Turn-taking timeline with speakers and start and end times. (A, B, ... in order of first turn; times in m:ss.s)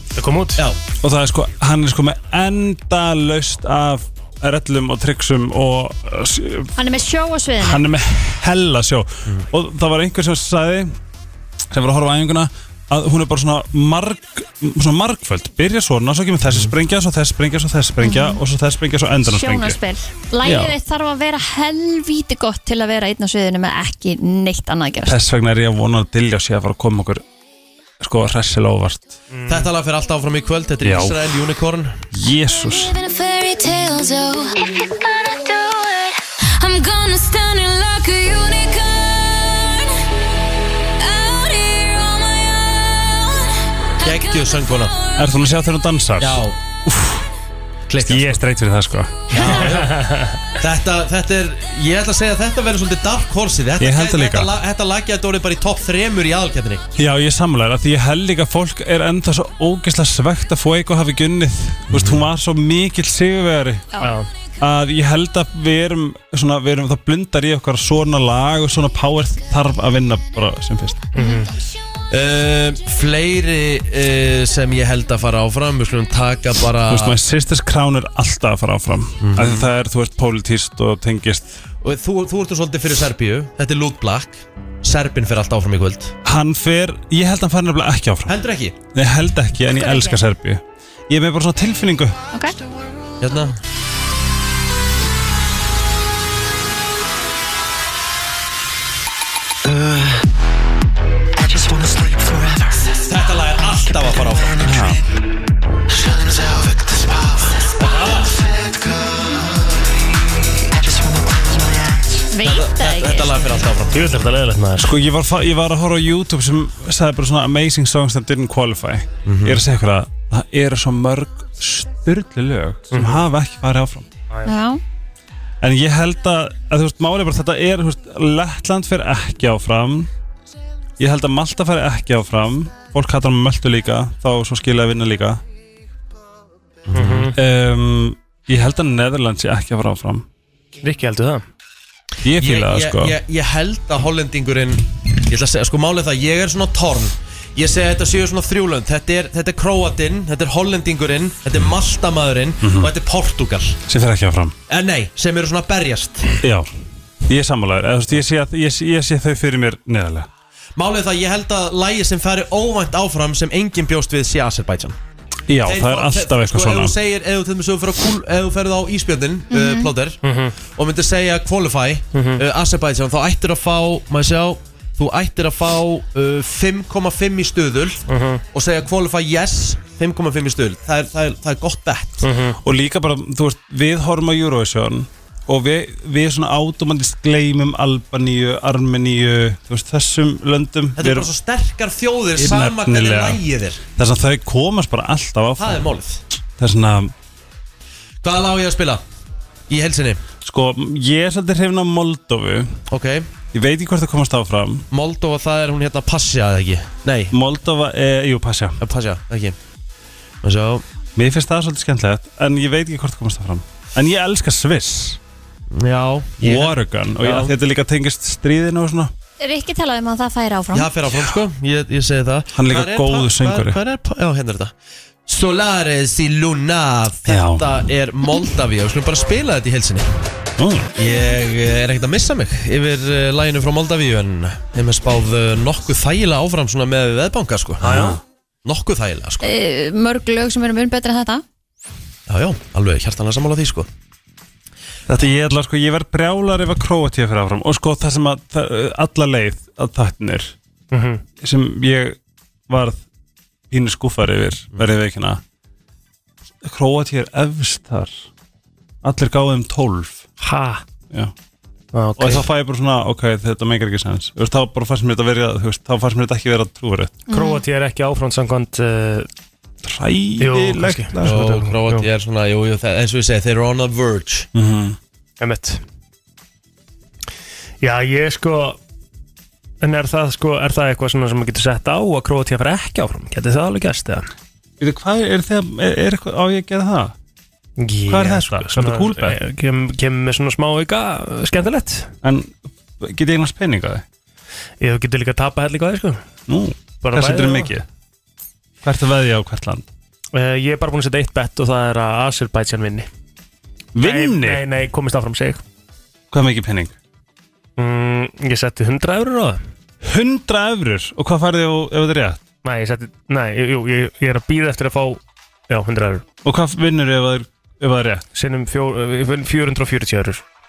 0:00.2-0:00.6 A
0:01.0-0:06.7 B
0:06.8-0:07.8 C
0:07.6-0:10.9 B
0:11.7-0:19.8 B
0:18.0-0:18.4 C
0:19.2-0:25.2 C
0:20.4-0:20.7 B
0:25.0-0:27.2 B
0:28.0-0:29.2 B
0:29.3-0:29.7 A
0:29.5-0:32.0 D
0:30.8-0:31.4 B
0:32.1-0:32.9 B
0:32.8-0:40.0 E
0:41.0-0:45.4 E
0:44.0-0:44.9 D
0:45.2-0:47.2 B
0:46.2-0:46.6 D
0:47.9-0:48.4 D
0:48.0-0:49.7 B
0:49.3-0:50.1 D
0:49.4-0:50.4 A
0:50.6-0:56.8 D
0:53.8-0:54.5 B
0:57.0-1:03.9 B
1:01.9-1:02.2 D
1:04.0-1:04.3 A
1:04.6-1:11.1 B
1:11.1-1:11.5 A
1:11.2-1:11.4 C
1:12.1-1:17.2 D
1:16.9-1:21.6 B
1:19.2-1:19.7 D
1:21.8-1:26.1 D
1:26.2-1:28.3 B
1:28.3-1:28.8 D
1:28.9-1:32.2 B
1:29.7-1:30.2 C
1:33.2-1:33.6 D
1:39.6-1:40.1 E
1:41.4-1:43.1 E
1:43.0-1:44.7 D
1:44.2-1:44.8 E
1:44.6-1:45.0 B
1:45.9-1:47.5 E
1:47.8-1:48.2 D
1:48.4-1:49.3 E
1:50.7-1:52.1 E
1:52.3-1:53.4 C
1:52.4-1:54.0 D
1:53.9-1:54.9 A
1:54.8-2:04.1 B
1:59.2-1:59.6 D
2:02.9-2:03.2 A
2:04.4-2:04.8 C
2:05.6-2:10.1 B
2:11.0-2:15.4 B
2:16.9-2:17.3 D
2:16.9-2:17.4 A
2:17.3-2:20.2 B
2:20.8-2:21.4 A
2:22.2-2:23.2 B
2:22.4-2:33.8 D
2:32.6-2:32.9 B
2:33.9-2:34.6 B
2:34.7-2:36.4 D
2:36.4-2:36.7 B
2:37.3-2:40.3 B
2:40.8-2:45.0 D
2:45.5-2:47.0 B
2:45.6-3:02.2 D
2:49.5-2:49.9 C
2:50.2-2:50.6 A
2:52.1-2:52.4 A
2:58.1-2:58.4 A
3:02.2-3:02.6 A
3:02.6-3:11.3 B
3:11.0-3:13.8 D
3:12.4-3:15.8 B
3:15.6-3:16.2 D
3:16.6-3:17.1 B
3:18.2-3:19.0 D
3:19.7-3:20.2 D
3:20.4-3:22.8 B
3:22.9-3:23.3 D
3:23.5-3:24.8 B
3:24.9-3:27.3 D
3:27.3-3:28.8 B
3:28.8-3:29.6 D
3:30.4-3:30.8 D
3:31.2-3:35.2 B
3:35.7-3:37.5 D
3:36.4-3:39.1 B
3:39.4-3:40.9 C
3:40.7-3:44.7 D
3:42.5-3:43.8 B
3:45.2-3:50.1 D
3:47.2-3:47.8 B
3:50.6-3:50.9 B
3:51.0-3:58.0 D
3:57.8-3:58.2 B
3:57.8-3:58.2 A
3:58.6-3:59.5 D
3:59.4-4:01.4 C
4:02.3-4:03.9 D
4:05.1-4:10.5 B
4:10.9-4:11.2 A
4:11.4-4:12.2 B
4:12.7-4:13.0 B
4:13.7-4:15.4 B
4:16.6-4:18.2 B
4:19.0-4:20.2 B
4:20.4-4:20.8 A
4:21.9-4:22.5 A
4:22.2-4:27.2 B
4:27.3-4:27.6 C
4:27.3-4:29.3 A
4:29.8-4:31.5 B
4:30.4-4:32.0 A
4:31.2-4:34.5 D
4:34.5-4:35.0 B
4:35.4-4:35.8 A
4:37.8-4:38.8 A
4:39.8-4:44.2 A
4:44.8-4:47.1 B
4:47.8-4:52.1 A
4:48.1-4:49.4 B
4:52.2-4:54.0 B
4:54.8-4:56.2 A
4:56.5-4:57.8 B
4:57.0-4:57.7 A
4:58.8-4:59.8 B
5:00.3-5:03.1 A
5:04.0-5:04.6 B
5:04.0-5:05.6 A
5:06.3-5:06.9 B
5:07.8-5:09.6 A
5:10.0-5:12.4 B
5:12.6-5:16.2 A
5:16.4-5:18.2 B
5:18.3-5:20.4 A